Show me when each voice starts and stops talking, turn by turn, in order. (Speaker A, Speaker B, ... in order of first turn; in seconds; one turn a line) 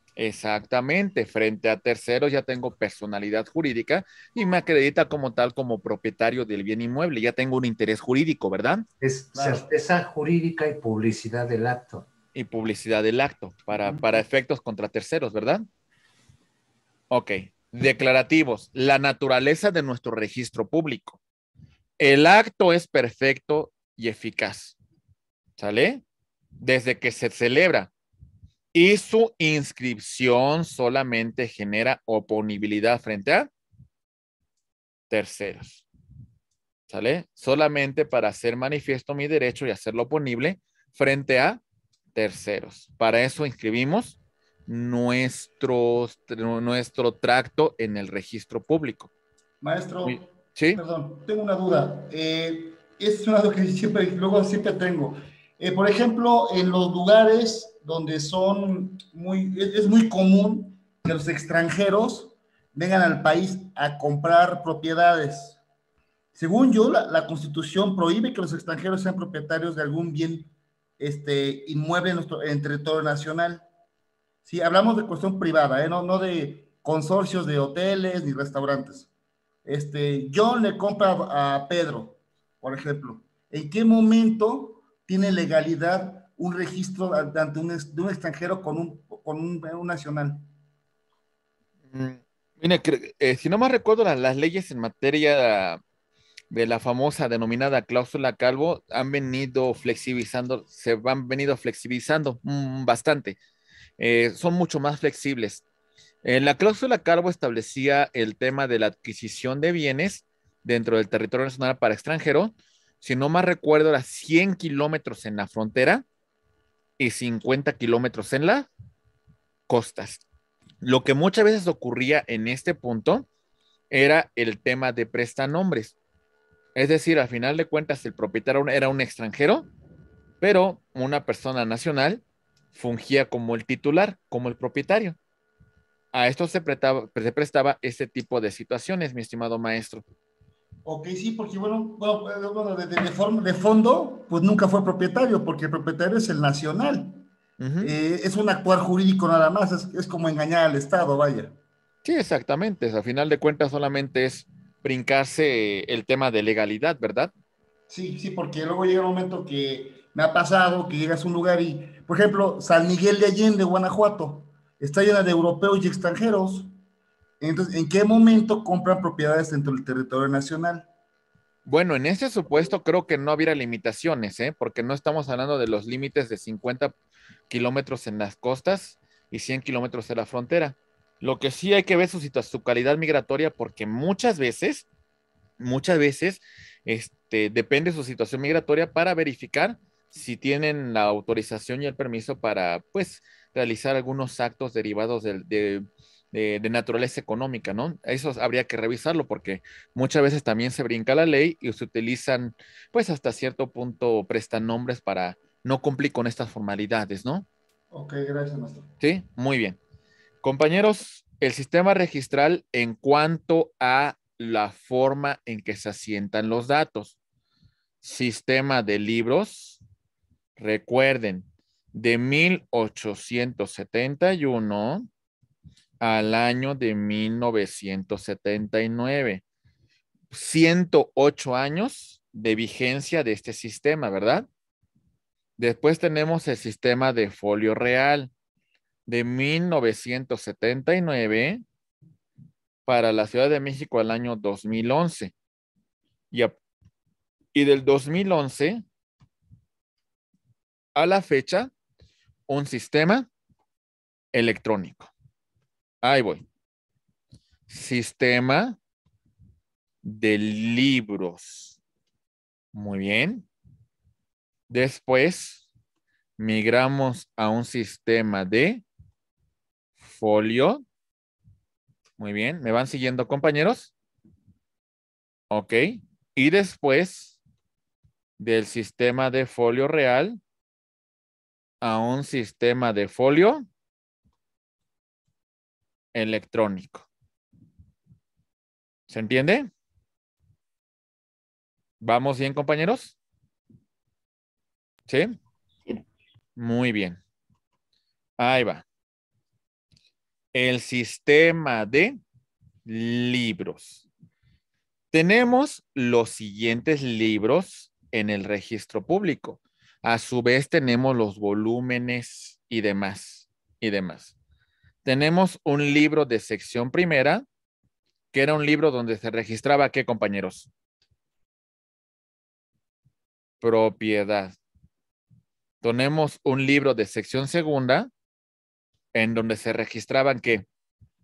Speaker A: 0.2-8.8
Speaker B: 9.0-12.1
Speaker C: 9.3-9.6
Speaker A: 12.3-15.6
Speaker A: 17.1-21.2
Speaker A: 22.0-24.8
Speaker A: 25.6-26.0
Speaker A: 26.6-27.9
Speaker A: 28.7-33.5
Speaker A: 35.1-35.9
Speaker A: 36.9-41.6
Speaker A: 42.1-49.1
Speaker C: 49.6-65.6
Speaker A: 50.0-50.8
Speaker C: 66.3-73.6
Speaker C: 74.4-79.1
Speaker C: 79.6-90.5
Speaker A: 91.9-95.8
Speaker A: 96.5-103.4
Speaker A: 104.0-105.6
Speaker A: 106.2-116.0
Speaker A: 117.0-118.7
Speaker A: 119.7-120.2
Speaker A: 120.8-123.3
Speaker A: 123.9-126.0
Speaker A: 126.7-129.7
Speaker A: 130.4-132.2
Speaker A: 132.7-135.2
Speaker A: 136.1-140.0
Speaker C: 140.8-147.2
Speaker A: 147.6-147.9
Speaker C: 147.8-151.5
Speaker A: 152.0-157.3
Speaker C: 157.9-166.7
Speaker C: 167.4-170.9
Speaker A: 171.7-176.9
Speaker A: 177.5-184.9
Speaker A: 185.6-207.4
Speaker C: 207.9-208.9
Speaker A: 209.0-209.8
Speaker A: 210.4-217.2
Speaker A: 218.0-219.8
Speaker A: 220.6-225.1
Speaker A: 226.0-229.4
Speaker A: 230.3-234.5
Speaker A: 235.6-238.3
Speaker A: 239.1-241.6
Speaker A: 242.8-245.3
Speaker A: 247.5-248.8
Speaker A: 250.9-251.7
Speaker A: 252.5-253.3
Speaker A: 254.3-255.1
Speaker A: 256.0-256.4
Speaker A: 257.7-258.8
Speaker A: 260.0-261.8
Speaker A: 262.7-263.4
Speaker A: 264.7-265.6
Speaker A: 266.4-268.8
Speaker A: 270.0-270.8
Speaker A: 272.2-273.9
Speaker A: 275.5-277.4
Speaker A: 278.4-280.4
Speaker A: 281.8-283.6
Speaker A: 286.1-287.1
Speaker A: 289.1-289.7
Speaker A: 292.0-293.1
Speaker A: 296.6-297.2
Speaker A: 298.4-298.8
Speaker A: 300.5-302.2
Speaker A: 302.8-304.0
Speaker A: 305.1-314.3
Speaker A: 315.0-317.4
Speaker A: 318.3-320.7
Speaker A: 323.6-324.6
Speaker A: 325.8-328.1
Speaker A: 329.1-330.6